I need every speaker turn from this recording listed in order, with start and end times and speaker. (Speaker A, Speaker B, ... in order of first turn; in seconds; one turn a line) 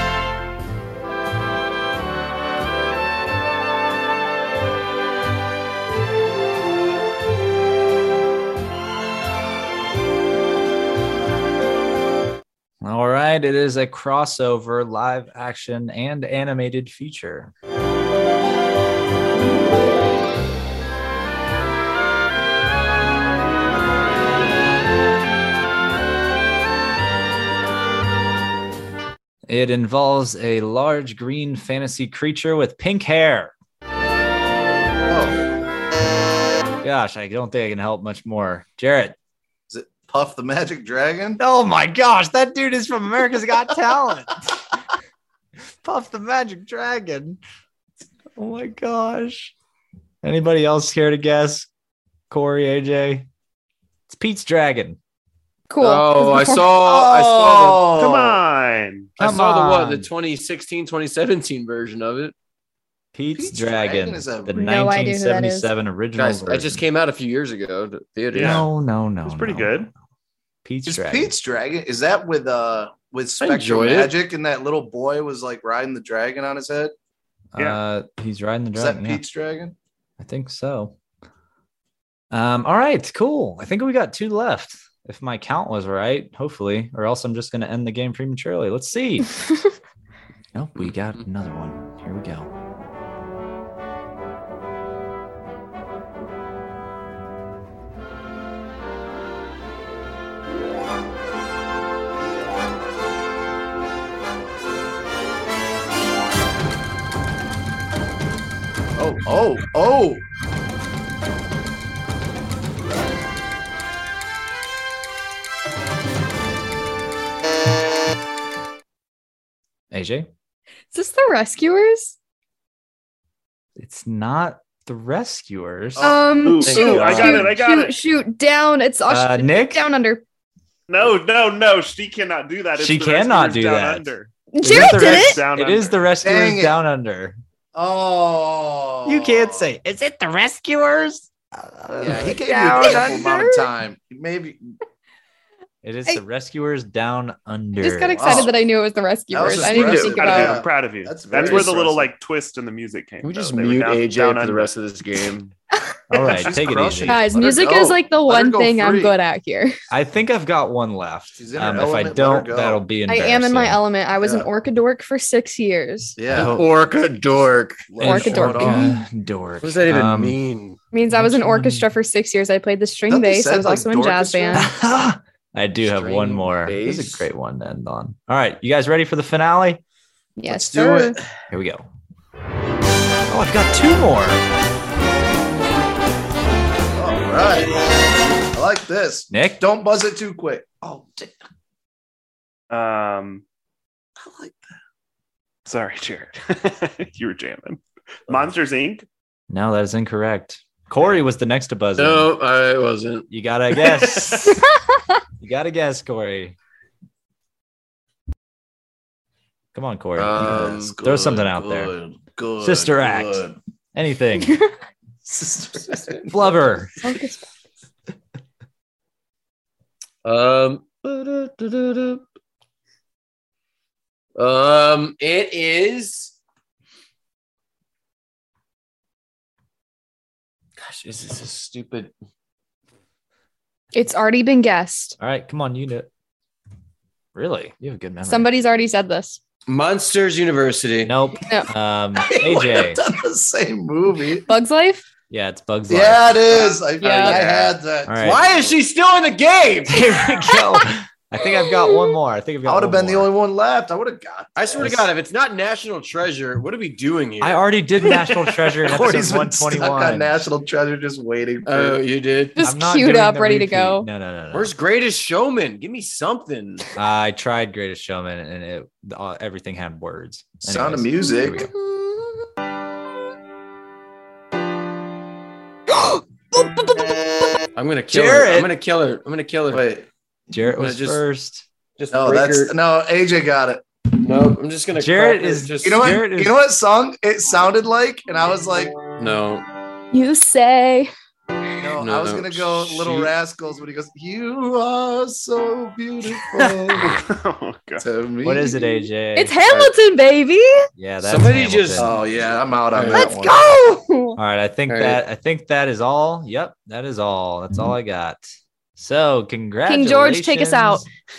Speaker A: 12.8-17.5
Speaker A: 29.5-33.5
Speaker B: 35.1-35.4
Speaker A: 36.8-39.2
Speaker B: 39.7-41.4
Speaker A: 41.4-44.7
Speaker A: 45.8-47.4
Speaker A: 48.4-49.5
Speaker A: 50.2-51.7
Speaker A: 52.3-53.3
Speaker A: 54.1-55.0
Speaker C: 55.7-56.8
Speaker D: 55.8-57.9
Speaker B: 56.8-58.4
Speaker E: 58.0-59.1
Speaker D: 59.2-62.3
Speaker A: 59.2-60.1
Speaker A: 63.1-66.8
Speaker B: 63.3-64.7
Speaker C: 64.5-65.7
Speaker D: 66.2-68.7
Speaker E: 68.3-68.7
Speaker A: 68.3-69.9
Speaker E: 69.2-69.9
Speaker A: 70.7-71.3
Speaker B: 70.9-76.9
Speaker D: 73.4-74.2
Speaker A: 77.5-79.2
Speaker B: 78.8-79.8
Speaker A: 80.2-81.0
Speaker A: 82.3-89.4
Speaker A: 90.5-92.5
Speaker D: 90.8-91.2
Speaker B: 109.0-110.2
Speaker A: 119.9-120.3
Speaker C: 120.9-122.2
Speaker A: 123.8-126.2
Speaker B: 126.0-127.5
Speaker C: 126.0-130.2
Speaker E: 126.4-128.0
Speaker D: 126.7-127.4
Speaker A: 129.1-129.8
Speaker E: 130.9-134.3
Speaker A: 132.8-134.1
Speaker C: 134.5-135.4
Speaker A: 134.6-137.4
Speaker B: 134.7-135.3
Speaker E: 134.9-136.0
Speaker B: 136.2-136.8
Speaker B: 137.8-139.7
Speaker A: 139.1-143.3
Speaker D: 142.0-142.3
Speaker B: 142.1-144.6
Speaker C: 142.7-143.7
Speaker A: 145.8-148.5
Speaker C: 147.8-150.6
Speaker B: 148.1-148.6
Speaker B: 149.3-152.1
Speaker E: 149.7-154.7
Speaker D: 151.3-151.7
Speaker D: 153.2-155.5
Speaker A: 156.1-157.2
Speaker B: 156.2-159.2
Speaker C: 157.1-159.7
Speaker A: 159.9-163.8
Speaker B: 161.4-162.8
Speaker C: 163.1-166.2
Speaker B: 164.2-164.5
Speaker B: 166.2-166.7
Speaker A: 166.3-166.7
Speaker D: 166.3-168.3
Speaker B: 167.9-169.0
Speaker C: 168.0-168.9
Speaker A: 168.1-170.4
Speaker D: 169.6-170.8
Speaker C: 170.9-174.7
Speaker A: 171.1-171.9
Speaker B: 173.1-174.7
Speaker A: 174.5-179.8
Speaker D: 175.8-177.3
Speaker C: 180.4-181.2
Speaker B: 180.5-181.2
Speaker A: 181.5-181.8
Speaker A: 183.3-184.4
Speaker B: 187.0-187.8
Speaker B: 188.4-191.4
Speaker A: 189.3-189.6
Speaker E: 192.7-193.4
Speaker B: 194.2-194.6
Speaker E: 195.7-199.1
Speaker A: 199.5-202.3
Speaker D: 202.0-203.3
Speaker A: 203.3-204.7
Speaker A: 205.4-206.6
Speaker A: 209.7-211.9
Speaker D: 210.2-211.5
Speaker B: 210.4-213.6
Speaker A: 212.6-214.6
Speaker B: 215.2-216.5
Speaker A: 216.3-217.0
Speaker C: 217.0-217.5
Speaker D: 220.2-222.2
Speaker D: 224.4-226.4
Speaker D: 230.8-232.1
Speaker C: 233.9-235.2
Speaker A: 235.2-236.1
Speaker A: 237.3-238.5
Speaker C: 238.2-239.4
Speaker D: 239.7-241.1
Speaker A: 241.0-243.0
Speaker C: 241.4-241.7
Speaker B: 242.2-244.5
Speaker C: 244.5-245.1
Speaker A: 245.3-246.5
Speaker B: 245.9-248.8
Speaker D: 246.5-250.1
Speaker C: 247.0-247.4
Speaker A: 248.1-248.4
Speaker A: 249.9-253.3
Speaker B: 252.7-255.0
Speaker D: 254.6-258.7
Speaker A: 254.8-255.1
Speaker A: 257.4-260.5
Speaker B: 258.9-262.0
Speaker D: 261.6-262.6
Speaker C: 262.6-264.1
Speaker A: 262.6-264.7
Speaker D: 264.5-266.9
Speaker A: 266.9-271.7
Speaker B: 270.6-272.1
Speaker A: 275.9-277.3
Speaker D: 277.8-279.9
Speaker A: 278.1-278.7
Speaker B: 279.7-280.1
Speaker A: 280.5-281.7
Speaker D: 280.7-281.2
Speaker D: 282.0-282.8
Speaker B: 282.1-283.9
Speaker D: 284.2-286.1
Speaker A: 284.9-286.5
Speaker B: 285.8-289.0
Speaker D: 289.2-289.7
Speaker C: 290.1-291.1
Speaker B: 291.8-297.2
Speaker D: 292.0-293.3
Speaker E: 297.0-298.1
Speaker B: 298.0-298.8
Speaker A: 298.4-299.6
Speaker C: 299.4-300.9
Speaker A: 301.0-302.1
Speaker D: 301.2-302.2
Speaker B: 301.9-303.6
Speaker D: 302.9-303.3
Speaker C: 303.1-304.4
Speaker A: 304.4-308.4
Speaker D: 304.9-305.2
Speaker A: 309.0-311.1
Speaker C: 309.9-311.1